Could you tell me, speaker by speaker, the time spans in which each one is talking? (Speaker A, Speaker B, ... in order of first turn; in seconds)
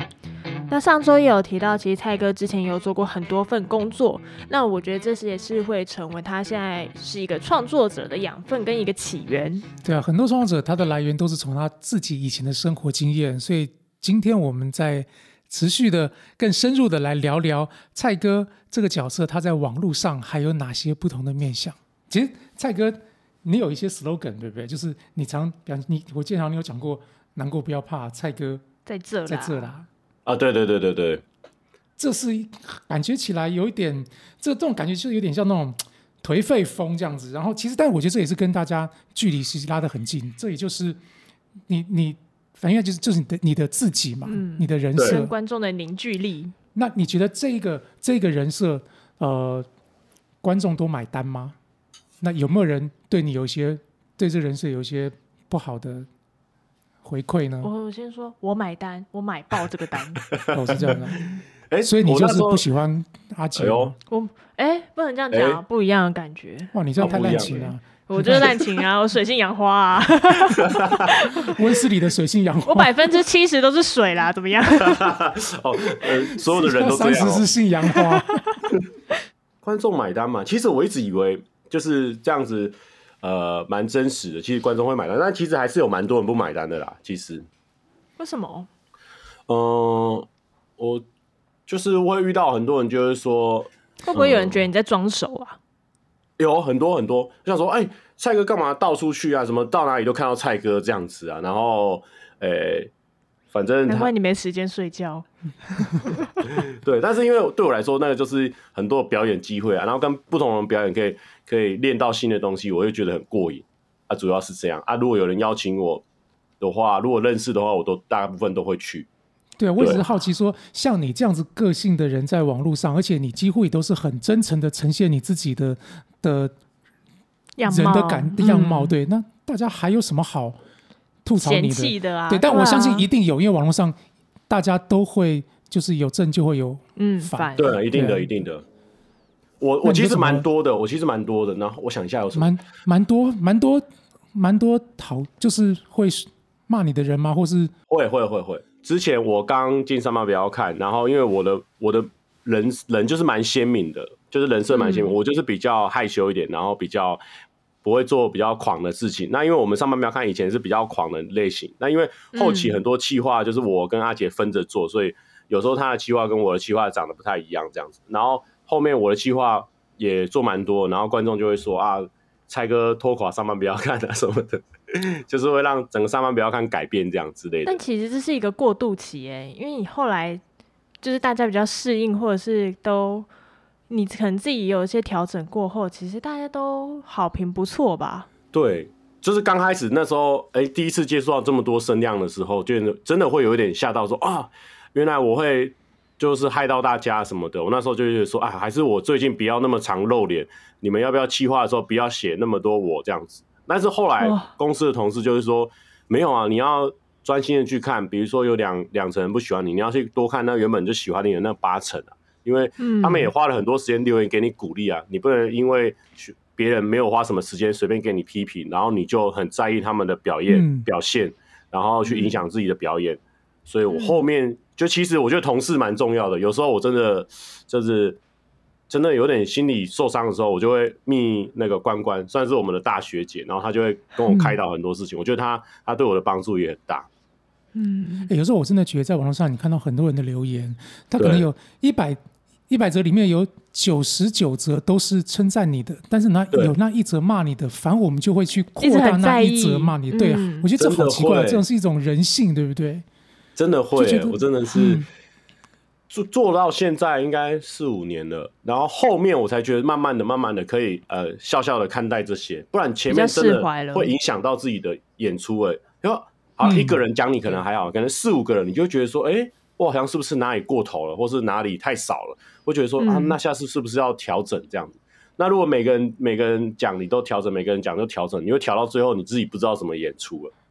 Speaker A: 0.7-9.7, 28.9-29.7, 44.2-46.5, 57.6-60.2, 64.1-71.8, 72.7-75.2, 77.9-78.6, 88.2-88.7, 94.1-95.6, 103.9-106.3, 127.6-128.9, 131.4-133.1, 136.9-137.8, 154.7-155.1, 162.3-162.8, 177.6-180.4, 181.0-183.3, 183.9-188.3, 204.2-204.5, 212.8-213.3, 222.1-222.4, 223.9-224.2, 237.7-238.3, 248.8-250.7, 263.1-264.1, 273.0-273.4
Speaker B: 9.8-28.6, 29.3-29.9, 32.0-41.0, 41.7-45.3, 46.7-49.7, 50.4-51.5, 52.2-56.1, 57.0-57.7, 60.5-61.3, 61.8-63.9, 66.7-68.5, 71.4-73.0, 76.3-78.4, 119.6-126.5, 127.6-130.6, 131.2-134.0, 134.5-138.3, 139.8-140.4, 142.3-147.7, 220.5-220.9, 234.3-234.6, 238.3-253.0, 253.9-255.1, 266.6-267.0
Speaker C: 30.2-31.2, 60.3-61.0, 61.7-62.6, 63.5-63.9, 65.3-65.6, 67.0-67.7, 70.5-71.1, 74.8-77.5, 79.6-87.5, 89.5-90.3, 90.8-91.0, 91.7-94.7, 96.4-102.9, 103.5-104.1, 106.5-116.0, 116.6-119.1, 137.6-138.6, 139.6-142.5, 147.9-157.2, 157.8-177.8, 188.5-228.2, 228.9-237.1, 241.2-241.4, 250.8-251.6, 253.6-255.0, 256.1-280.5